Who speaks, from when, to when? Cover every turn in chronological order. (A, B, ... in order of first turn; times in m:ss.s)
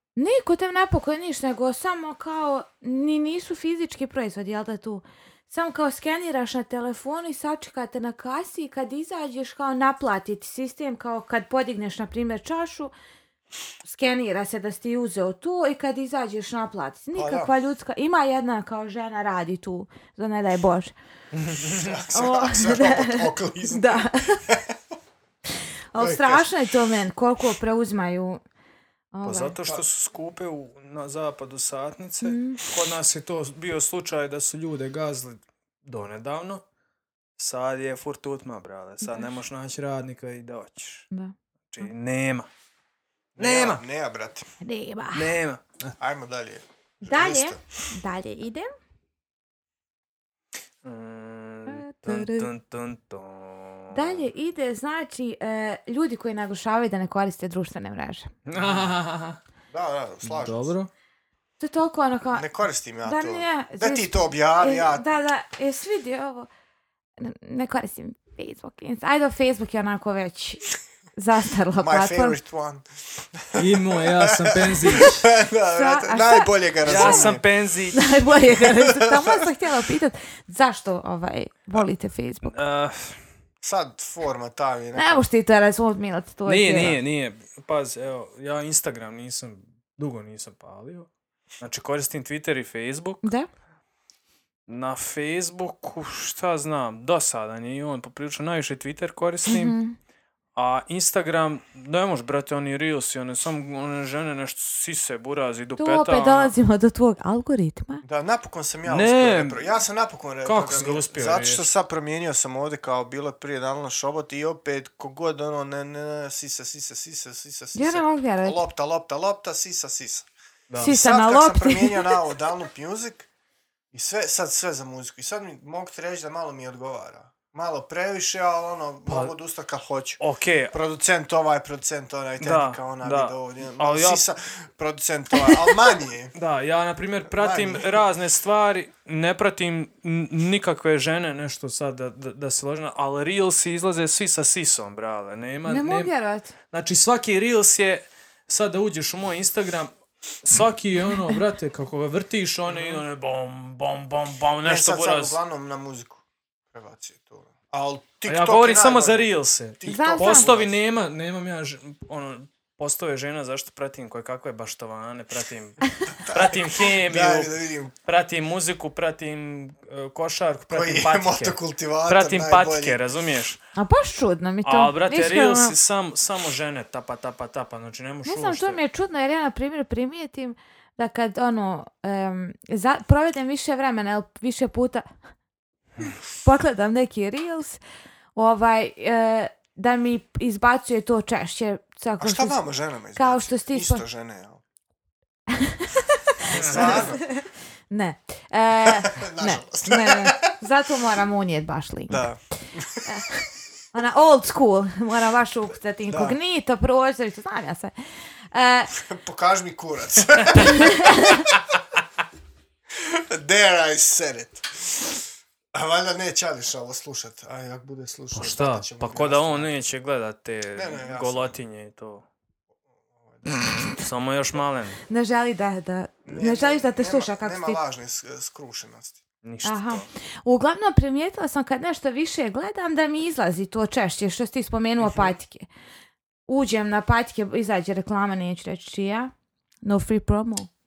0:00.2-0:12.9 A
0:13.8-0:20.9 A
0:17.1-0:17.5 B
0:21.3-0:22.0 C
0:21.6-0:24.8 B
0:22.1-0:24.4 A
0:25.9-0:28.4 A
0:26.0-0:26.5 B
0:29.1-0:29.6 A
0:29.2-0:36.6 C
0:32.2-0:32.6 A
0:37.4-0:41.1 C
0:39.0-0:39.3 A
0:41.7-0:42.5 C
0:43.4-0:44.5 B
0:43.4-0:43.8 C
0:44.6-0:45.3 A
0:45.1-0:45.9 C
0:46.0-0:47.6 B
0:47.0-0:48.7 A
0:50.8-0:54.3 C
0:51.7-0:52.5 A
0:53.9-0:58.3 A
0:58.5-0:59.4 C
0:59.7-1:00.7 B
1:00.2-1:00.9 C
1:01.6-1:02.5 A
1:02.3-1:05.0 B
1:03.0-1:06.5 A
1:07.2-1:10.6 A
1:11.2-1:12.4 A
1:11.8-1:17.4 B
1:13.6-1:15.3 C
1:15.8-1:17.3 A
1:16.8-1:18.2 C
1:17.9-1:22.6 A
1:18.6-1:19.5 B
1:22.4-1:23.2 C
1:23.6-1:25.2 B
1:25.0-1:27.0 A
1:26.5-1:31.1 C
1:31.6-1:33.2 C
1:33.2-1:33.5 A
1:34.7-1:39.8 C
1:39.5-1:40.0 A
1:40.6-1:46.5 C
1:45.8-1:48.0 A
1:48.0-2:00.3 B
1:48.9-1:49.6 C
1:50.4-1:51.7 C
1:57.8-1:58.6 A
2:00.7-2:01.0 C
2:00.8-2:02.2 A
2:00.8-2:03.3 B
2:03.9-2:10.2 B
2:09.1-2:09.3 C
2:10.2-2:10.8 C
2:10.7-2:16.3 B
2:12.4-2:14.2 C
2:16.4-2:26.1 C
2:17.2-2:18.0 B
2:25.6-2:26.5 A
2:26.7-2:29.9 C
2:30.4-2:35.4 C
2:32.7-2:33.0 B
2:34.6-2:40.8 B
2:38.2-2:47.5 C
2:39.9-2:40.5 A
2:46.1-2:47.9 B
2:48.0-2:53.6 C
2:50.7-2:53.0 B
2:53.8-2:55.8 A
2:54.6-2:58.8 C
2:58.2-3:05.1 A
3:06.4-3:07.8 A
3:08.4-3:12.6 A
3:12.2-3:14.6 B
3:13.2-3:14.0 A
3:15.5-3:17.4 A
3:16.4-3:17.3 B
3:16.5-3:17.1 C
3:17.9-3:22.3 A
3:18.8-3:20.5 B
3:22.1-3:23.1 B
3:23.0-3:27.9 A
3:26.1-3:26.4 B
3:28.5-3:28.9 A
3:29.0-3:31.6 B
3:30.6-3:31.4 A
3:32.9-3:35.2 B
3:35.7-3:39.8 B
3:38.3-3:42.2 C
3:40.7-3:41.6 B
3:43.2-3:43.5 B
3:43.7-3:45.0 C
3:45.1-3:47.8 A
3:46.3-3:49.2 B
3:49.4-3:50.0 C
3:49.6-3:55.7 A
3:55.0-3:55.3 B
3:56.5-3:59.3 A
3:59.8-4:00.7 A